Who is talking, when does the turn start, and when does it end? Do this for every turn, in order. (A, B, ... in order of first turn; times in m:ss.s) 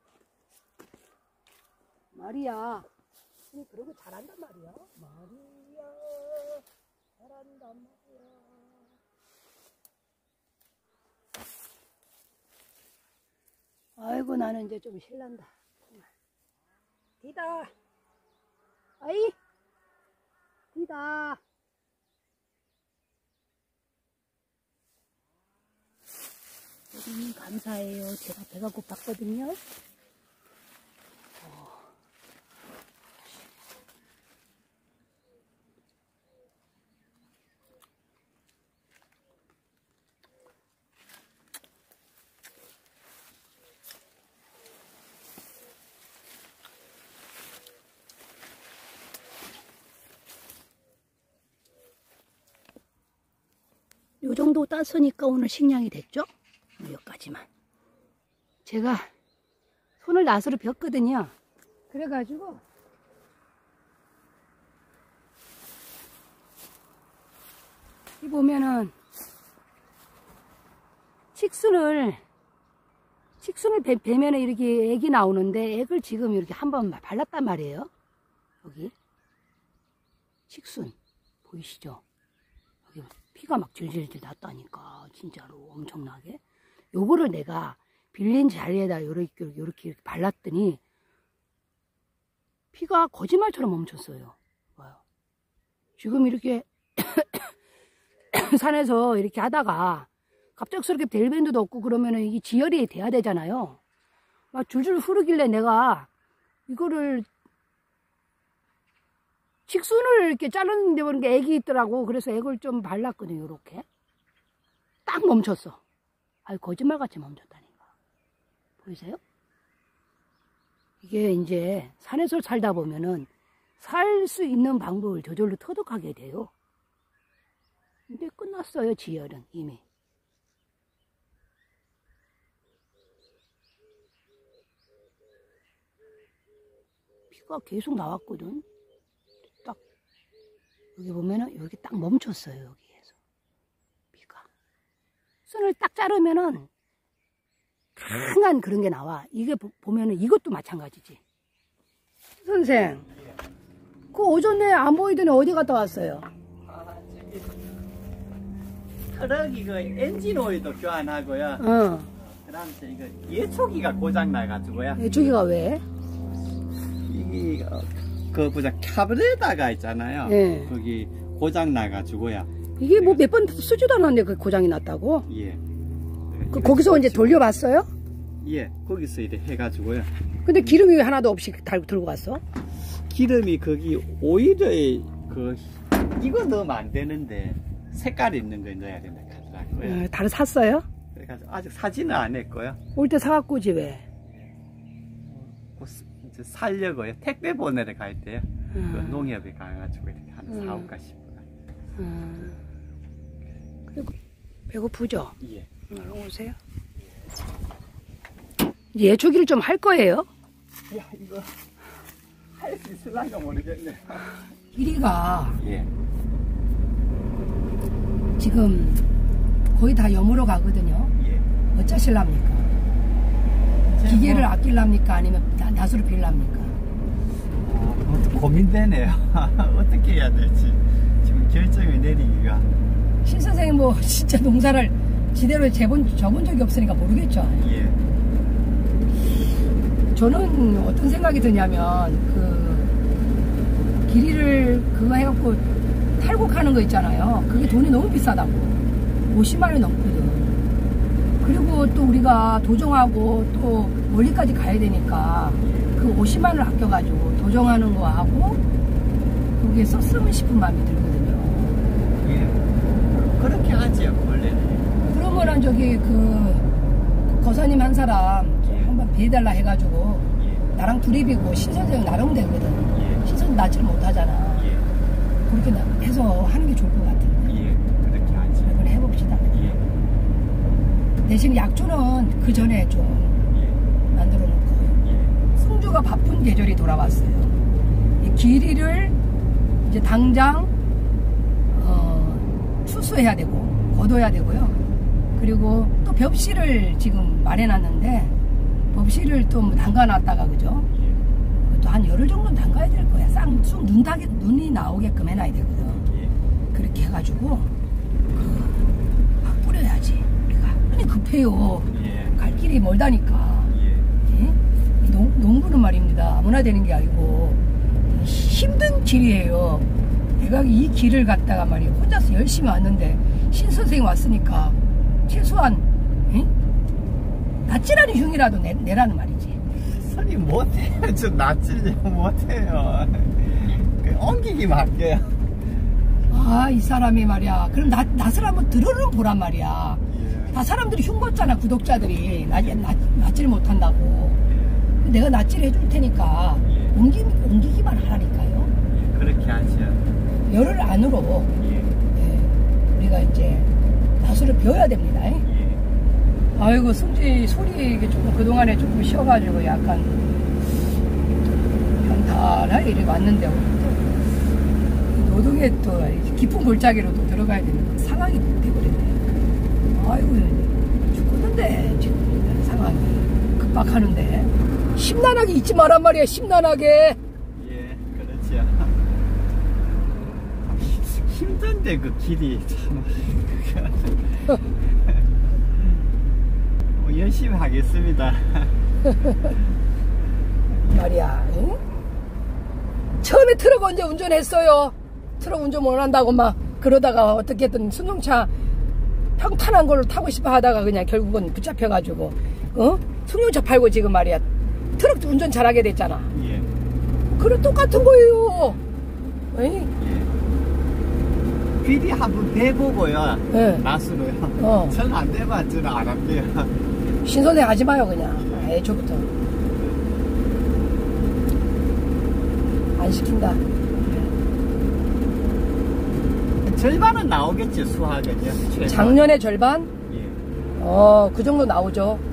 0:02.1-0:02.9 A
0:03.5-0:06.6 A
0:07.2-0:08.9 A
0:14.0-0:16.1 A
0:17.2-0:17.7 A
0:19.0-0:19.4 A
0:20.7-0:21.4 A
0:26.9-0:29.6 A
0:31.4-0:31.9 A
0:54.2-0:57.5 A
0:58.6-0:59.1 A
1:00.0-1:01.3 A
1:01.9-1:02.6 A
1:08.2-1:08.9 A
1:11.3-1:12.2 A
1:13.4-1:17.9 A
1:18.6-1:18.9 A
1:20.5-1:22.0 A
1:22.9-1:26.4 A
1:26.9-1:30.8 A
1:32.7-1:35.0 A
1:36.0-1:37.5 A
1:38.3-1:43.8 A
1:44.5-1:46.1 A
1:46.7-1:47.3 A
1:49.7-1:53.8 A
1:55.0-1:55.8 A
1:56.4-1:57.9 A
1:58.8-1:59.2 A
2:01.0-2:06.5 A
2:08.1-2:09.8 A
2:17.3-2:18.6 A
2:21.0-2:23.2 A
2:24.1-2:24.5 A
2:25.4-2:26.7 A
2:28.0-2:31.2 A
2:32.4-2:33.1 A
2:34.1-2:36.3 A
2:36.6-2:37.6 B
2:39.1-2:45.3 B
2:41.6-2:42.1 A
2:45.0-2:45.8 A
2:47.0-2:53.3 B
2:50.2-2:50.7 A
2:52.8-2:55.3 A
2:55.3-2:55.6 B
2:56.3-2:57.6 B
2:56.5-2:57.9 A
2:58.4-3:00.7 B
3:00.4-3:02.4 A
3:02.8-3:10.0 B
3:09.8-3:10.8 A
3:11.1-3:12.8 B
3:12.9-3:14.0 A
3:14.2-3:14.5 B
3:15.2-3:21.5 B
3:18.7-3:19.3 A
3:20.5-3:20.9 A
3:22.0-3:22.6 A
3:24.7-3:25.4 A
3:25.4-3:25.7 B
3:25.9-3:26.6 A
3:28.9-3:30.3 A
3:30.9-3:31.6 B
3:32.5-3:34.4 B
3:34.7-3:35.6 A
3:35.6-3:35.9 B
3:38.4-3:39.1 A
3:39.7-3:41.1 A
3:41.2-3:41.5 B
3:41.7-3:42.7 A
3:43.6-3:44.5 B
3:44.0-3:46.8 A
3:47.6-3:52.7 B
3:53.2-3:57.6 A
3:57.6-3:58.0 B
4:00.1-4:02.9 A
4:04.0-4:05.6 A
4:06.2-4:10.7 A
4:07.5-4:07.8 B
4:11.4-4:18.6 A
4:15.6-4:15.9 B
4:19.6-4:21.8 A
4:22.1-4:25.6 B
4:25.0-4:26.7 A
4:27.3-4:34.7 A
4:30.3-4:30.6 B
4:32.9-4:33.2 B
4:34.6-4:34.9 B
4:35.5-4:37.5 A
4:37.4-4:38.8 B
4:38.6-4:39.7 A
4:39.5-4:39.8 B
4:41.2-4:43.4 A
4:43.5-4:43.8 B
4:44.1-4:45.0 A
4:45.0-4:45.4 B
4:45.5-4:47.6 A
4:48.2-4:49.1 A
4:49.8-4:50.7 A
4:51.7-4:54.8 A
4:55.4-4:58.3 A
4:58.9-5:00.9 A
5:00.9-5:01.2 B
5:01.6-5:06.0 A
5:06.0-5:06.3 B
5:06.7-5:07.7 A
5:08.3-5:08.8 A
5:09.4-5:13.7 A
5:11.9-5:12.4 B
5:13.7-5:14.1 B
5:14.3-5:26.5 A
5:27.6-5:29.6 A
5:29.7-5:35.5 B
5:36.3-5:40.0 A
5:40.1-5:40.6 B
5:40.5-5:44.4 A
5:44.4-5:44.9 B
5:45.0-5:48.7 A
5:46.6-5:46.9 B
5:48.9-5:50.0 B
5:50.5-5:51.5 A
5:51.6-5:52.0 B
5:52.1-5:55.4 A
5:55.4-5:55.8 B
5:56.5-6:00.9 A
6:02.0-6:04.2 A
6:05.1-6:09.2 A
6:09.9-6:17.2 A
6:17.5-6:19.1 B
6:20.6-6:26.0 B
6:26.9-6:28.8 B
6:29.3-6:29.6 B
6:30.8-6:31.8 A
6:33.2-6:38.5 A
6:39.4-6:44.4 A
6:45.0-6:46.3 A
6:46.3-6:46.7 B
6:47.4-6:48.8 A
6:49.5-6:49.9 A
6:50.0-6:50.3 B
6:51.8-6:56.8 B
6:53.5-6:53.8 A
6:54.6-6:55.0 A
6:57.2-6:59.3 A
6:58.4-6:58.7 B
6:59.5-7:00.2 B
7:03.0-7:03.7 A
7:04.0-7:04.3 B
7:06.6-7:09.3 B
7:08.8-7:09.9 A
7:10.1-7:10.4 B
7:10.7-7:12.2 A